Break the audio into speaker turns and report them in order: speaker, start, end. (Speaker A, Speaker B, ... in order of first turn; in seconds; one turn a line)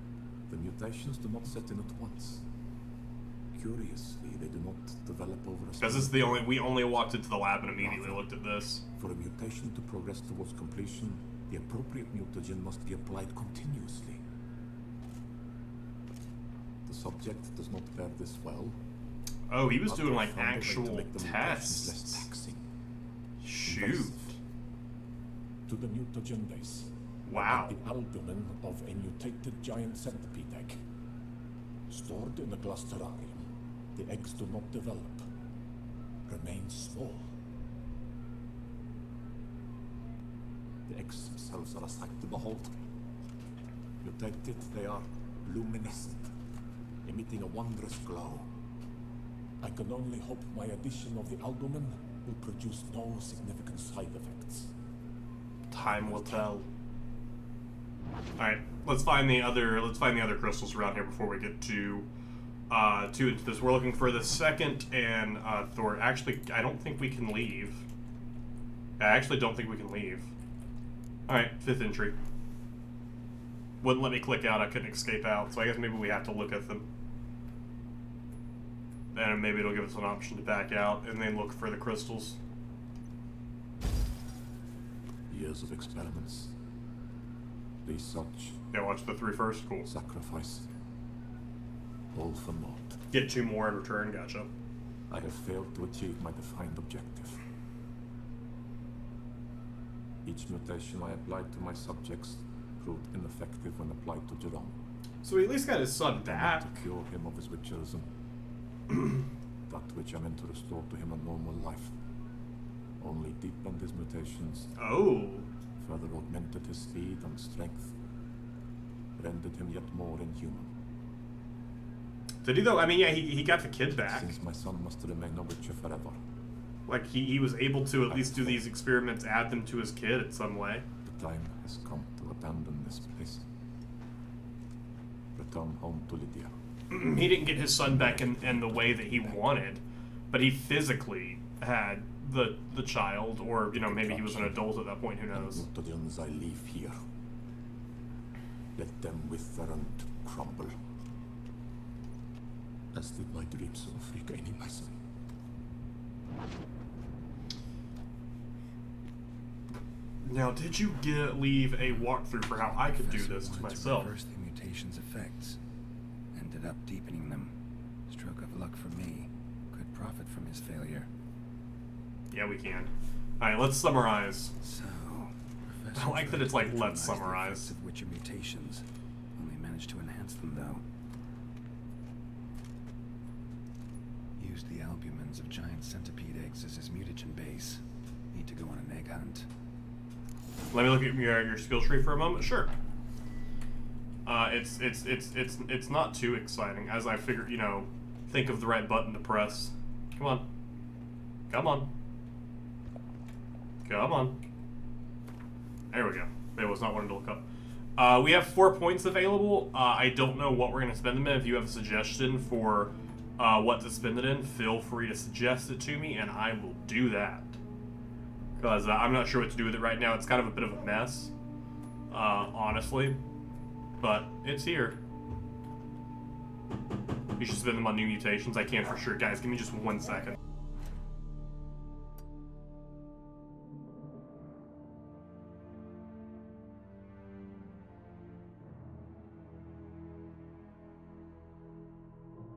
Speaker A: 0.5-2.5
Speaker A: 3.5-6.5
Speaker B: 5.8-8.8
Speaker A: 7.8-8.2
Speaker A: 9.0-14.2
Speaker A: 16.9-18.8
Speaker B: 19.5-22.3
Speaker A: 19.9-22.6
Speaker B: 23.4-24.4
Speaker A: 23.6-24.3
Speaker A: 25.7-30.8
Speaker B: 27.3-27.8
Speaker A: 31.9-33.5
Speaker A: 34.0-35.3
Speaker A: 36.3-37.3
Speaker A: 40.9-42.8
Speaker A: 44.0-46.3
Speaker A: 47.0-48.5
Speaker A: 49.6-54.7
Speaker B: 55.7-56.6
Speaker B: 58.4-62.1
Speaker B: 62.7-67.9
Speaker B: 69.0-70.3
Speaker B: 71.3-72.2
Speaker B: 73.8-76.9
Speaker B: 79.1-82.4
Speaker A: 85.3-86.5
Speaker A: 87.8-88.6
Speaker B: 88.7-89.9
Speaker A: 89.9-90.7
Speaker A: 92.1-93.0
Speaker B: 93.1-94.5
Speaker A: 95.1-97.4
Speaker A: 100.2-104.8
Speaker B: 105.2-106.9
Speaker A: 106.2-108.1
Speaker A: 109.7-112.0
Speaker A: 113.0-114.7
Speaker B: 114.8-115.5
Speaker A: 115.8-118.0
Speaker A: 119.2-120.7
Speaker B: 122.4-124.3
Speaker A: 124.1-126.2
Speaker B: 126.9-130.8
Speaker A: 131.0-133.4
Speaker A: 135.3-136.5
Speaker B: 136.9-145.7
Speaker A: 137.8-139.5
Speaker A: 143.7-144.7
Speaker A: 145.3-146.9
Speaker A: 148.8-150.8
Speaker A: 152.9-155.0
Speaker B: 160.2-164.1
Speaker C: 162.5-165.6
Speaker C: 166.3-167.6
Speaker C: 168.1-171.1
Speaker B: 172.3-174.5
Speaker C: 174.6-180.8
Speaker B: 175.9-177.7
Speaker C: 184.4-189.5
Speaker B: 190.7-192.7
Speaker B: 194.3-200.4
Speaker B: 201.5-201.9
Speaker B: 203.8-204.4
Speaker B: 205.9-207.4
Speaker B: 208.0-217.6
Speaker B: 218.6-221.3
Speaker B: 222.1-223.2
Speaker B: 224.0-225.0
Speaker B: 227.4-230.4